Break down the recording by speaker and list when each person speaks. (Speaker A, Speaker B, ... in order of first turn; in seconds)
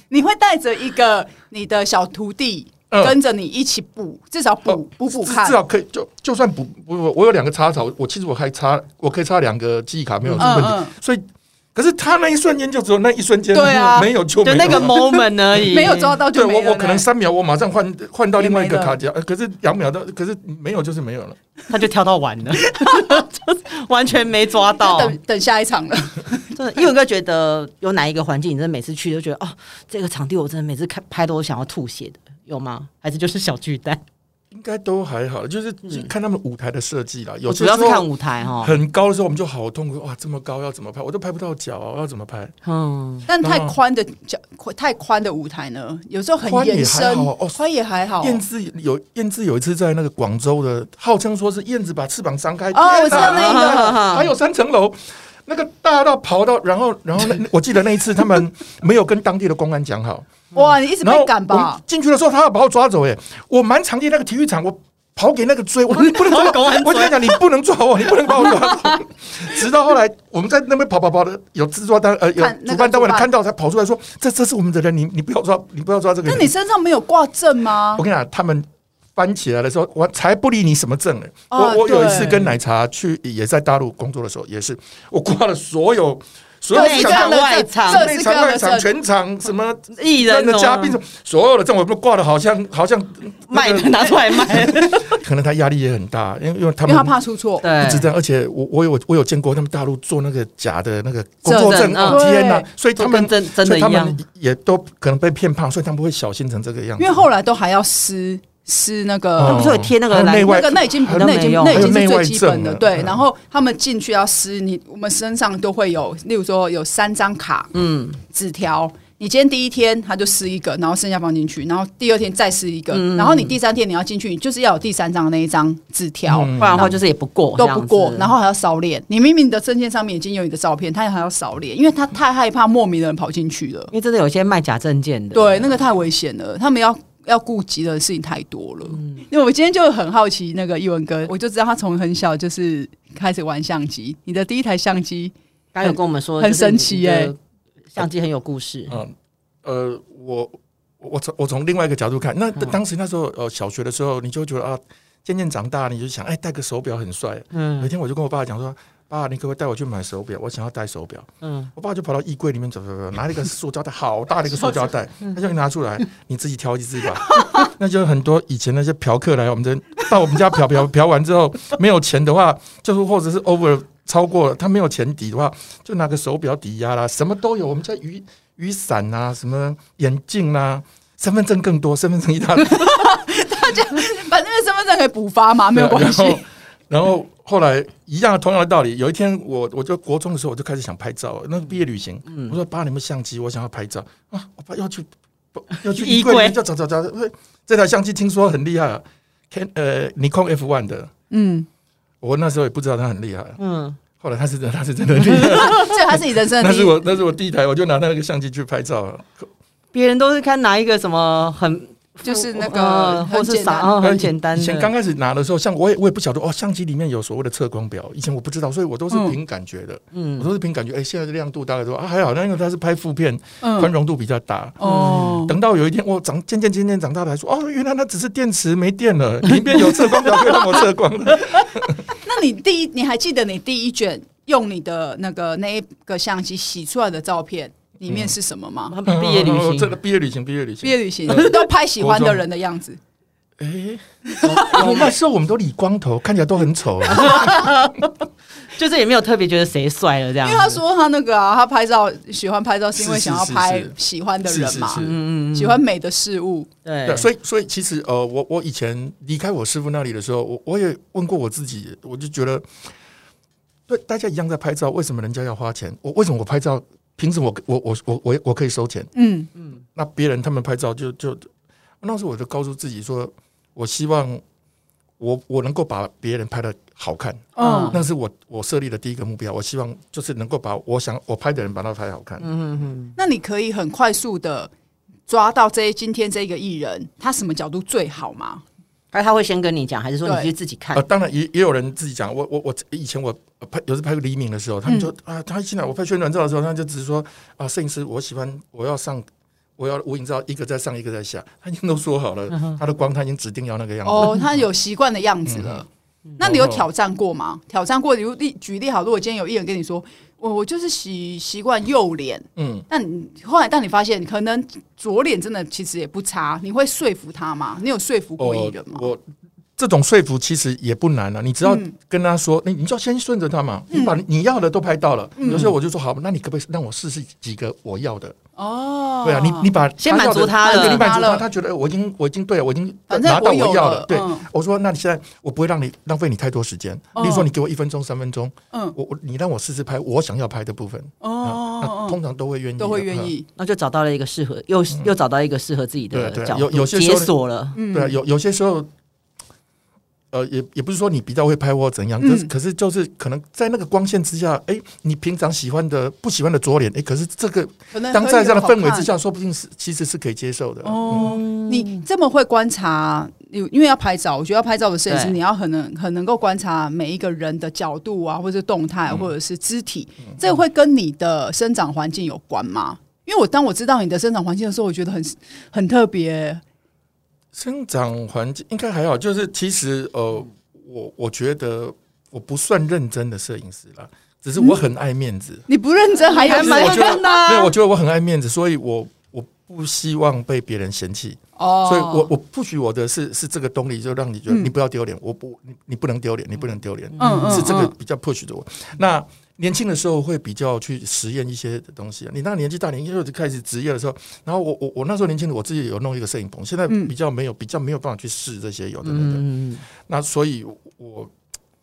Speaker A: 0.1-5.6, 10.4-10.9, 13.5-14.1, 14.7-17.1, 18.4-19.0, 22.7-23.2, 24.7-26.5, 43.3-48.4, 52.7-53.9, 60.5-61.8, 72.4-73.3, 76.3-78.0, 81.5-82.5, 86.7-88.9, 96.9-97.8, 101.4-102.7, 107.0-109.8, 110.3-117.7, 118.3-127.0, 127.6-133.9, 135.3-147.3, 167.3-167.7, 182.6-186.4, 201.3-201.7, 205.5-207.0, 212.2-214.0, 219.1-219.4, 223.6-223.9, 224.8-225.6, 232.1-239.0, 240.8-243.0, 244.3-244.9, 250.4-256.7, 269.1-269.5, 277.6-278.0, 283.2-284.7, 285.3-288.6, 290.2-290.5, 304.1-305.9, 306.4-319.1, 321.6-321.9, 323.9-324.2, 325.4-325.7, 328.6-329.7, 330.3-331.5, 333.1-334.5, 337.1-337.5, 341.2-342.2, 342.8-343.5, 347.8-348.2, 352.2-352.5, 357.9-359.1, 360.8-376.6, 385.7-387.5, 391.6-392.3, 397.2-397.9
Speaker B: 2.9-3.2, 4.7-11.2, 11.8-15.7, 16.2-21.4, 34.5-38.1, 38.6-42.5, 43.4-43.8, 46.4-47.6, 48.2-60.3, 61.0-76.5, 78.0-97.2, 97.8-107.2, 109.4-113.2, 126.3-127.0, 148.9-183.2, 185.7-201.1, 202.2-203.6, 204.2-209.5, 214.0-232.1, 238.1-238.3, 239.1-242.4, 243.6-244.0, 244.6-247.7, 252.9-255.2, 257.1-262.7, 263.9-269.1, 269.9-271.5, 272.0-274.4, 275.2-282.5, 290.9-299.3, 299.8-304.6, 305.5-305.8, 306.4-306.9, 312.6-312.9, 318.4-319.2, 319.8-328.4, 329.2-343.3, 346.1-348.9, 350.3-361.4, 377.5-385.7, 386.5-409.4, 410.1-411.3
Speaker C: 10.2-10.5, 14.4-16.2, 21.7-25.2, 26.5-34.0, 37.5-38.8, 42.6-43.3, 53.1-54.3, 65.9-67.4, 86.7-88.1, 89.9-91.0, 93.5-95.2, 97.6-98.1, 101.5-102.3, 103.0-104.2, 109.4-112.0, 117.7-118.2, 122.9-123.6, 126.6-128.3, 133.9-135.8, 138.9-139.2, 145.7-147.4, 147.9-149.0, 157.5-157.9, 161.4-161.7, 192.3-192.6, 195.9-196.6, 203.6-204.0, 209.9-214.9, 220.1-220.5, 224.8-225.4, 238.9-239.9, 244.4-245.1, 247.1-248.2, 248.7-250.8, 255.0-255.8, 256.9-257.3, 277.6-278.0, 282.4-283.2, 289.1-291.1, 330.0-331.1, 343.6-347.8, 361.1-362.0, 365.1-365.4, 386.3-387.7, 397.2-397.7, 409.0-409.8